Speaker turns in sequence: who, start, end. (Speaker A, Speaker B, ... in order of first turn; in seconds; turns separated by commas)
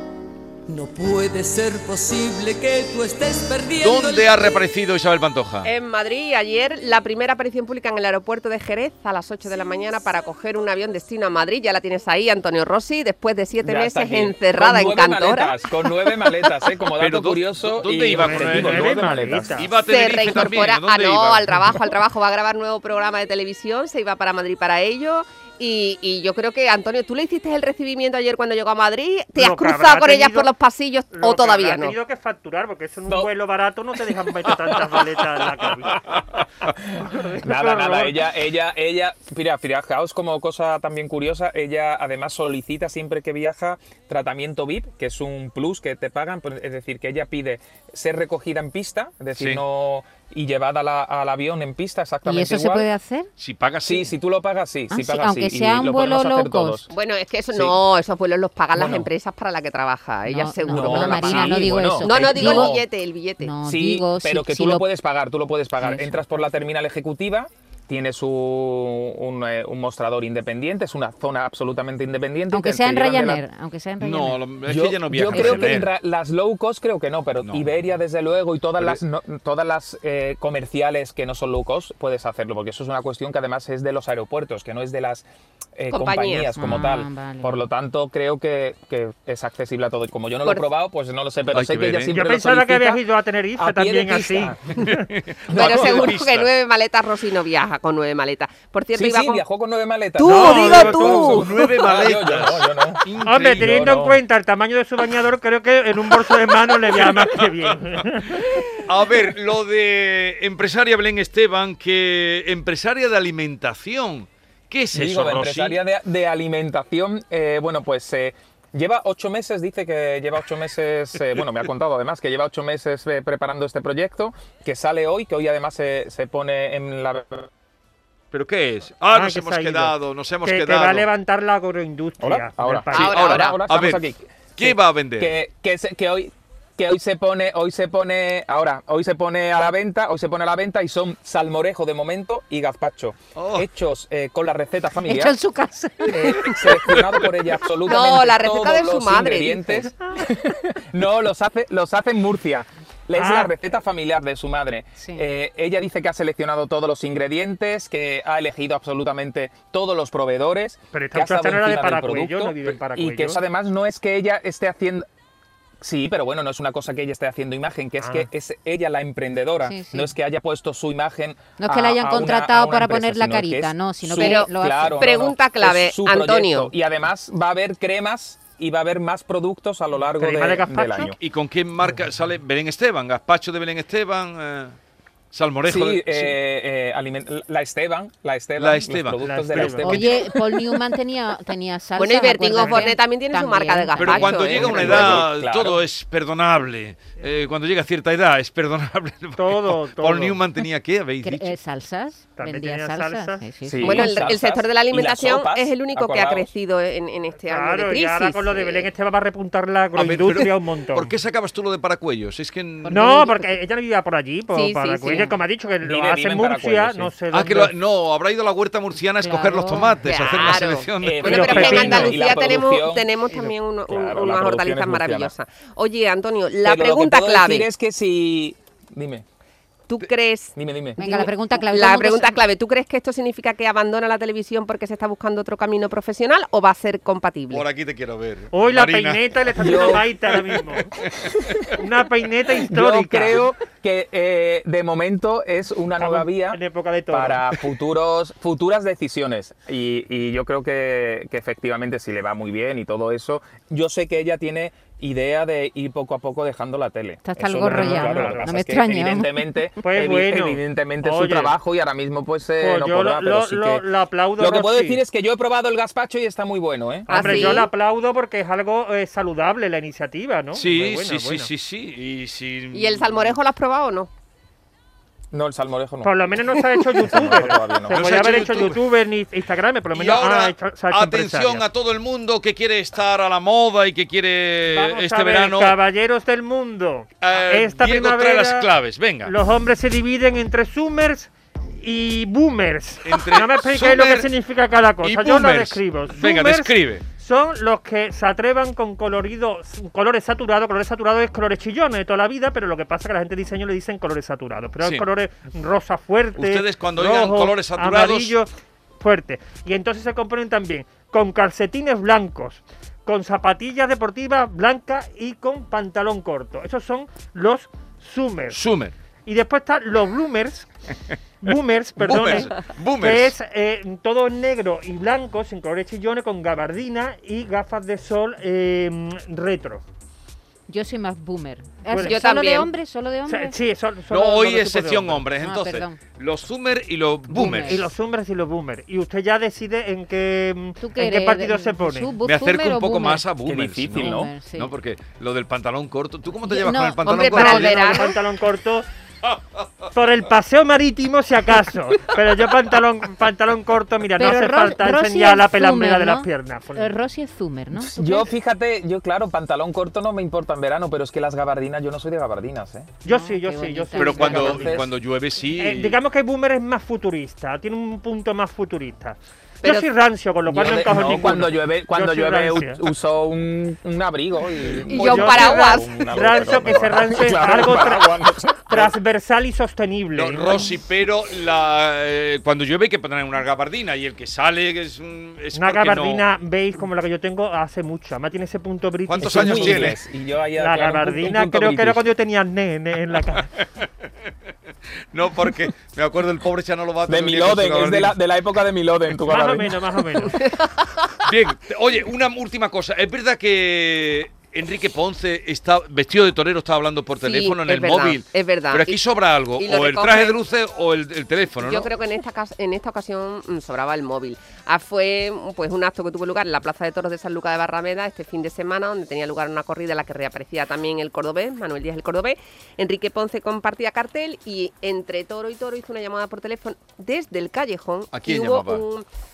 Speaker A: 0.7-4.6, Speaker B: 3.8-5.7, Speaker C: 5.6-15.5, Speaker D: 13.6-19.5, Speaker C: 16.1-16.5, Speaker B: 17.0-21.5, Speaker E: 18.1-19.7, Speaker C: 19.8-31.9, Speaker E: 29.4-30.5, Speaker E: 31.1-36.2, Speaker D: 36.9-52.9, Speaker E: 36.9-38.2, Speaker B: 49.4-49.6, Speaker F: 52.2-53.3, Speaker B: 53.4-54.1, Speaker D: 53.8-56.9, Speaker F: 54.9-56.8, Speaker C: 56.9-63.5, Speaker D: 57.5-57.8, Speaker D: 58.7-59.1, Speaker F: 60.2-62.7, Speaker D: 60.7-62.9, Speaker F: 63.4-64.8, Speaker D: 63.6-73.4, Speaker F: 65.8-66.2, Speaker F: 72.5-74.4, Speaker B: 74.0-75.9, Speaker D: 74.7-85.2, Speaker F: 75.3-75.8, Speaker B: 77.4-77.7, Speaker D: 85.8-93.0, Speaker C: 85.9-86.5, Speaker F: 86.6-87.6, Speaker B: 91.5-92.2, Speaker E: 92.1-95.0, Speaker D: 93.6-95.0, Speaker B: 94.8-96.5, Speaker D: 95.5-96.2, Speaker C: 95.5-99.4, Speaker D: 98.9-104.2, Speaker C: 100.2-101.6, Speaker E: 100.2-101.3, Speaker B: 100.6-103.9, Speaker E: 103.2-108.6, Speaker B: 106.9-115.8, Speaker D: 114.9-127.5, Speaker B: 128.3-131.1, Speaker E: 129.1-133.4, Speaker D: 132.2-145.3, Speaker C: 132.9-133.6, Speaker B: 132.9-134.0, Speaker B: 134.6-135.3, Speaker B: 143.3-143.7, Speaker F: 145.0-146.6, Speaker D: 146.0-165.1, Speaker B: 146.4-147.3, Speaker C: 147.8-149.9, Speaker E: 153.2-153.5, Speaker F: 155.0-155.2, Speaker E: 160.9-163.4, Speaker D: 165.8-181.2, Speaker E: 168.0-168.3, Speaker F: 169.6-170.1, Speaker F: 171.6-175.0, Speaker C: 174.2-176.7, Speaker E: 180.2-181.1, Speaker B: 181.0-184.8, Speaker B: 185.3-186.3, Speaker D: 185.6-190.2, Speaker B: 188.6-189.8, Speaker E: 189.2-190.0, Speaker F: 189.8-194.6, Speaker C: 192.0-195.2, Speaker E: 192.6-192.9, Speaker B: 194.0-201.5, Speaker D: 194.5-195.8, Speaker E: 199.4-200.4, Speaker F: 201.2-204.2, Speaker E: 202.4-203.4, Speaker D: 203.6-206.5, Speaker C: 203.8-208.9, Speaker E: 207.4-211.1, Speaker B: 209.9-213.2, Speaker F: 212.8-213.5, Speaker E: 212.9-217.7, Speaker C: 214.5-215.3, Speaker D: 215.8-217.1, Speaker B: 217.3-222.0, Speaker F: 219.2-219.9, Speaker C: 219.8-227.7, Speaker D: 221.0-225.3, Speaker E: 221.2-222.2, Speaker D: 226.6-229.2, Speaker C: 229.9-237.6, Speaker D: 230.6-231.0, Speaker F: 231.0-232.4, Speaker B: 237.5-240.4, Speaker E: 238.5-240.9, Speaker D: 239.6-240.1, Speaker B: 241.0-241.5, Speaker E: 241.7-243.4, Speaker D: 242.6-246.6, Speaker E: 246.0-247.6, Speaker D: 247.1-263.8, Speaker F: 257.2-259.6, Speaker E: 257.6-258.6, Speaker E: 259.8-261.5, Speaker E: 262.6-265.0, Speaker D: 264.4-267.6, Speaker E: 267.1-271.5, Speaker C: 267.1-267.7, Speaker B: 270.5-273.4, Speaker C: 272.7-274.1, Speaker D: 275.3-278.3, Speaker E: 276.0-281.6, Speaker B: 277.9-278.8, Speaker B: 279.9-285.7, Speaker E: 284.7-288.7, Speaker B: 287.2-289.3, Speaker E: 289.2-318.6, Speaker B: 293.0-294.3, Speaker B: 295.0-297.0, Speaker B: 304.8-305.0, Speaker B: 306.4-308.4, Speaker B: 318.5-318.9, Speaker E: 319.2-320.7, Speaker E: 321.4-329.8, Speaker B: 321.5-323.4, Speaker F: 330.7-333.5, Speaker E: 331.9-332.2, Speaker C: 332.0-332.7, Speaker E: 333.3-335.2, Speaker B: 334.1-337.9, Speaker F: 335.4-336.0, Speaker F: 337.3-337.9, Speaker E: 337.4-342.1, Speaker F: 340.8-343.2, Speaker B: 342.2-348.1, Speaker D: 343.4-344.3, Speaker F: 344.0-344.7, Speaker F: 346.4-347.4, Speaker C: 347.0-348.2, Speaker E: 347.3-348.9, Speaker B: 349.2-349.9, Speaker E: 349.9-356.9, Speaker F: 354.2-358.3, Speaker D: 357.7-362.9, Speaker E: 363.0-364.9, Speaker F: 363.0-364.6, Speaker B: 363.9-366.0, Speaker D: 364.4-364.9, Speaker E: 365.5-372.8, Speaker D: 370.5-378.9, Speaker E: 374.9-378.1, Speaker C: 374.9-376.0, Speaker E: 378.7-380.7, Speaker B: 380.1-386.2, Speaker E: 385.5-390.0, Speaker B: 389.1-390.0, Speaker D: 389.2-392.0, Speaker E: 390.5-393.5, Speaker B: 393.6-393.9, Speaker B: 395.1-398.1, Speaker D: 397.1-400.3, Speaker E: 399.2-400.4, Speaker C: 400.4-401.1, Speaker B: 401.2-411.9, Speaker C: 407.2-409.0, Speaker C: 409.6-410.4, Speaker C: 411.6-429.0, Speaker B: 428.1-428.8